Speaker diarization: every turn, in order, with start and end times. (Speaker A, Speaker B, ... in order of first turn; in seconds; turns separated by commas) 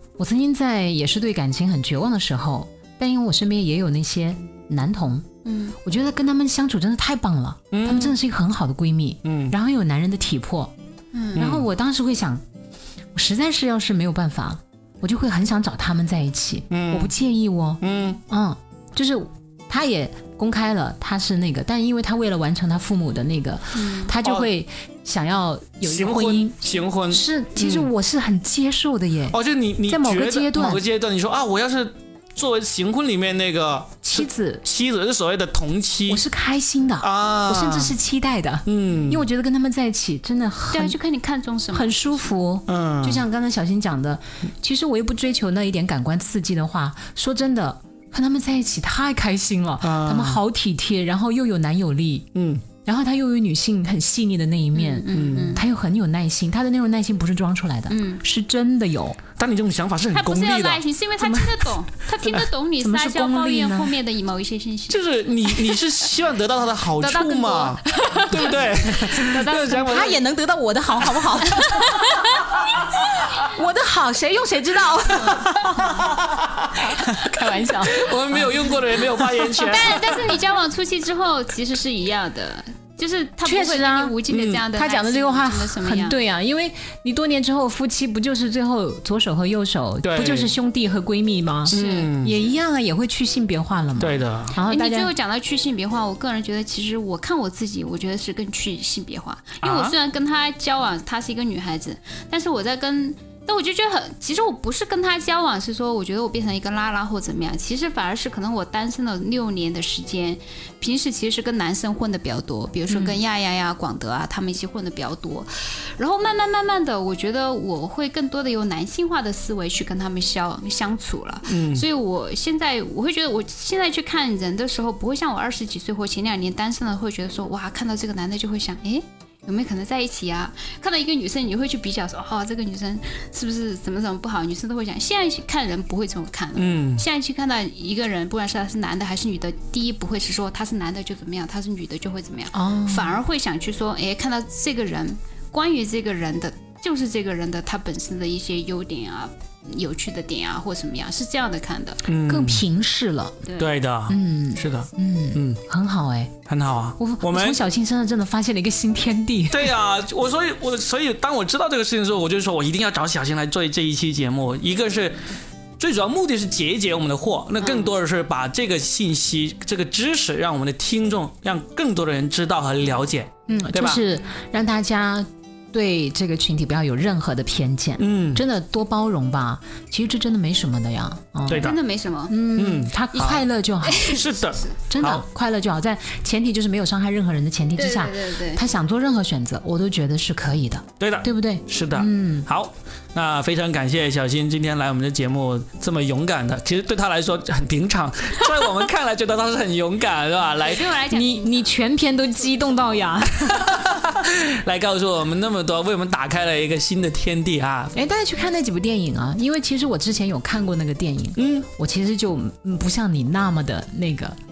Speaker A: 0.2-5.3, Speaker B: 5.5-5.8, Speaker A: 5.8-10.7, Speaker C: 7.7-8.2, Speaker C: 9.2-9.6, Speaker B: 11.1-11.4, Speaker C: 11.4-11.7, Speaker A: 11.4-12.4, Speaker A: 13.2-30.8, Speaker C: 16.7-17.2, Speaker C: 17.8-18.2, Speaker B: 23.8-24.1, Speaker C: 24.1-24.5, Speaker C: 25.9-27.9, Speaker C: 29.3-36.2, Speaker A: 34.0-34.6, Speaker A: 36.1-41.0, Speaker C: 37.0-38.0, Speaker C: 38.7-39.3, Speaker B: 40.7-42.2, Speaker A: 41.7-52.3, Speaker C: 42.7-43.2, Speaker C: 49.8-50.4, Speaker C: 52.4-52.6, Speaker A: 52.8-59.2, Speaker B: 54.7-55.6, Speaker C: 55.1-55.6, Speaker B: 57.9-58.2, Speaker C: 59.4-60.9, Speaker B: 60.1-65.0, Speaker A: 61.2-61.5, Speaker A: 62.8-63.9, Speaker C: 64.9-70.2, Speaker B: 65.5-65.8, Speaker B: 67.0-70.2, Speaker A: 69.8-76.1, Speaker B: 71.5-72.5, Speaker B: 75.2-76.0, Speaker C: 75.3-80.3, Speaker A: 77.0-78.7, Speaker B: 79.6-86.2, Speaker A: 83.5-95.1, Speaker C: 84.3-84.7, Speaker C: 90.0-90.5, Speaker C: 91.7-92.4, Speaker B: 91.7-92.1, Speaker C: 94.0-94.6, Speaker B: 94.0-152.0, Speaker C: 99.6-100.0, Speaker A: 112.9-113.2, Speaker C: 121.5-121.8, Speaker C: 136.6-137.0, Speaker A: 142.5-143.2, Speaker C: 152.1-152.7, Speaker A: 152.2-153.5, Speaker B: 153.4-153.7, Speaker C: 153.6-155.6, Speaker A: 154.1-156.3, Speaker C: 156.5-157.6, Speaker A: 157.0-159.7, Speaker C: 159.5-165.2, Speaker C: 165.8-174.0, Speaker B: 167.6-167.9, Speaker A: 173.5-181.7, Speaker C: 178.0-178.4, Speaker C: 181.5-181.8, Speaker B: 181.6-182.4, Speaker A: 182.3-184.1, Speaker C: 182.5-183.4, Speaker B: 183.8-184.8, Speaker C: 184.1-185.2, Speaker A: 184.9-192.5, Speaker B: 187.8-188.7, Speaker C: 191.0-200.9, Speaker B: 200.6-201.7, Speaker A: 201.1-203.8, Speaker C: 203.5-208.0, Speaker A: 207.9-214.4, Speaker C: 211.4-211.7